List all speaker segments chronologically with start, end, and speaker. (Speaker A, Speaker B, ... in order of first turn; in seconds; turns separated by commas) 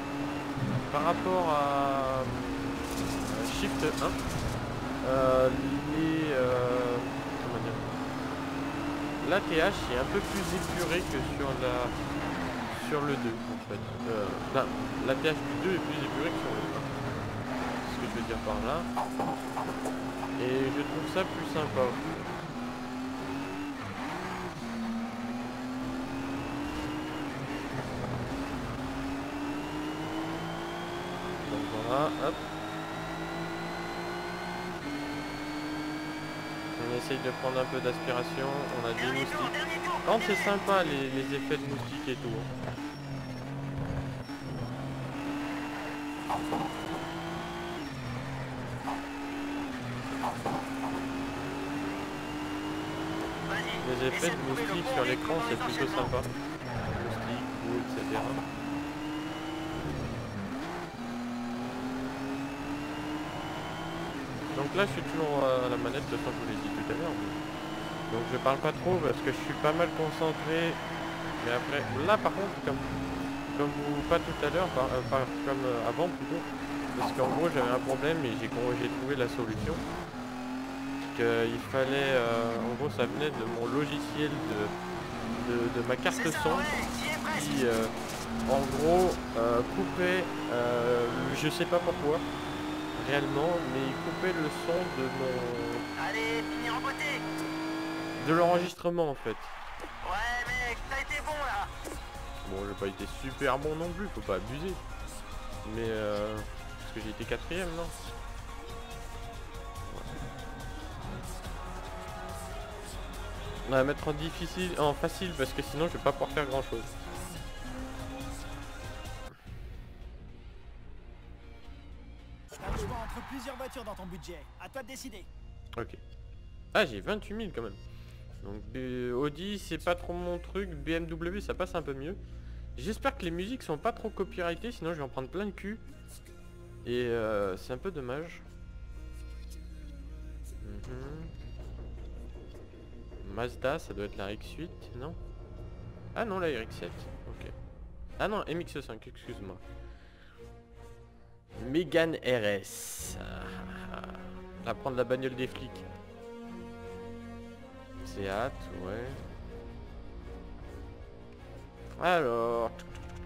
Speaker A: 0.9-4.2, Speaker A: 5.0-8.0, Speaker A: 9.2-11.9, Speaker A: 12.7-17.0, Speaker A: 17.8-18.9, Speaker A: 20.4-22.4, Speaker A: 31.4-32.5, Speaker A: 36.8-39.5, Speaker B: 39.0-40.5, Speaker A: 40.0-42.5, Speaker B: 53.5-56.1, Speaker A: 53.8-56.3, Speaker A: 56.9-58.4, Speaker A: 64.5-67.4, Speaker A: 68.1-70.8, Speaker A: 71.4-72.9, Speaker A: 73.5-79.8, Speaker A: 81.1-84.7, Speaker A: 85.4-86.7, Speaker B: 86.1-87.6, Speaker A: 87.3-87.9, Speaker A: 88.5-92.2, Speaker A: 93.0-95.8, Speaker B: 96.0-97.2, Speaker A: 98.2-99.5, Speaker B: 100.0-101.7, Speaker A: 102.5-104.8, Speaker A: 105.6-107.9, Speaker A: 109.8-110.1, Speaker A: 113.7-116.9, Speaker C: 122.6-125.3, Speaker A: 126.7-127.8, Speaker A: 128.4-132.2, Speaker A: 132.8-135.8, Speaker A: 136.8-138.4, Speaker A: 140.6-141.3, Speaker A: 143.2-145.2, Speaker A: 146.2-147.5, Speaker A: 148.2-149.6, Speaker A: 151.6-155.9, Speaker A: 158.0-159.2, Speaker A: 162.0-162.9